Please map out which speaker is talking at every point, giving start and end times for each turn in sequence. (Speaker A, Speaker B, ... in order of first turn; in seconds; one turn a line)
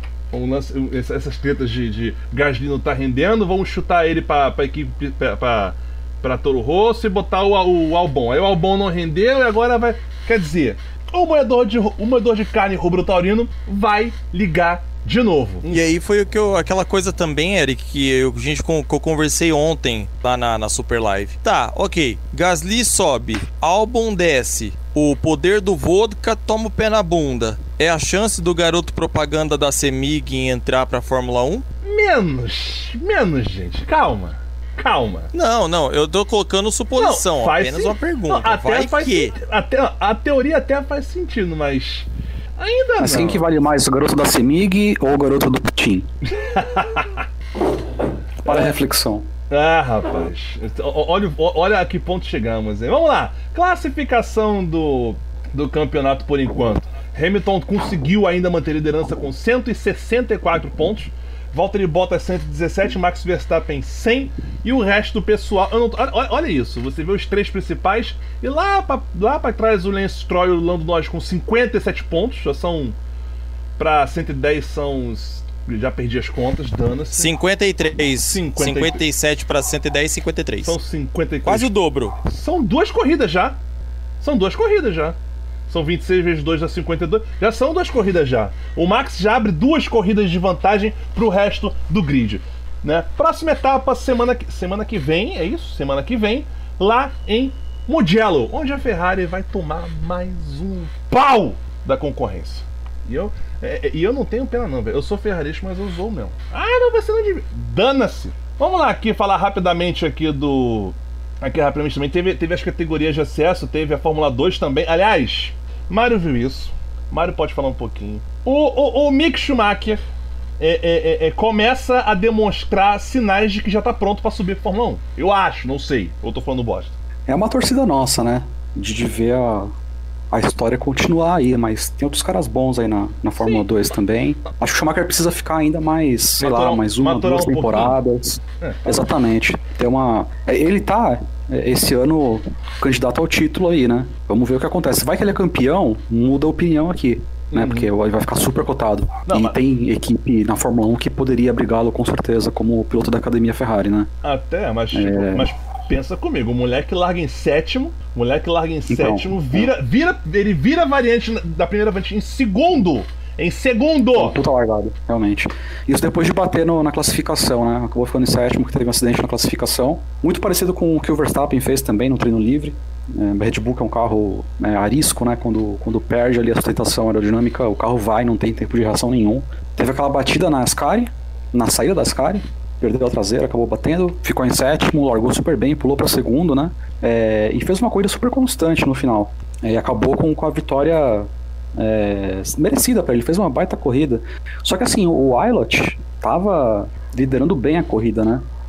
Speaker A: 0.3-15.8
Speaker B: 15.7-31.6
Speaker A: 31.8-35.3
Speaker B: 35.3-39.3
Speaker A: 37.0-43.4
Speaker C: 43.0-46.1
Speaker A: 46.3-47.2
Speaker A: 48.4-48.8
Speaker C: 48.4-49.3
Speaker A: 49.5-73.0
Speaker A: 73.8-77.3
Speaker B: 77.1-80.8
Speaker A: 78.0-79.0
Speaker A: 80.6-81.7
Speaker B: 81.4-82.2
Speaker A: 82.2-83.6
Speaker A: 84.2-85.2
Speaker A: 85.7-120.0
Speaker A: 120.6-126.9
Speaker C: 127.3-129.7
Speaker C: 130.3-154.1
Speaker A: 133.4-133.7
Speaker A: 136.4-138.0
Speaker A: 138.6-139.0
Speaker A: 147.5-147.9
Speaker A: 149.2-149.6
Speaker A: 154.2-164.4
Speaker C: 154.9-155.5
Speaker C: 158.9-159.7
Speaker C: 164.1-198.4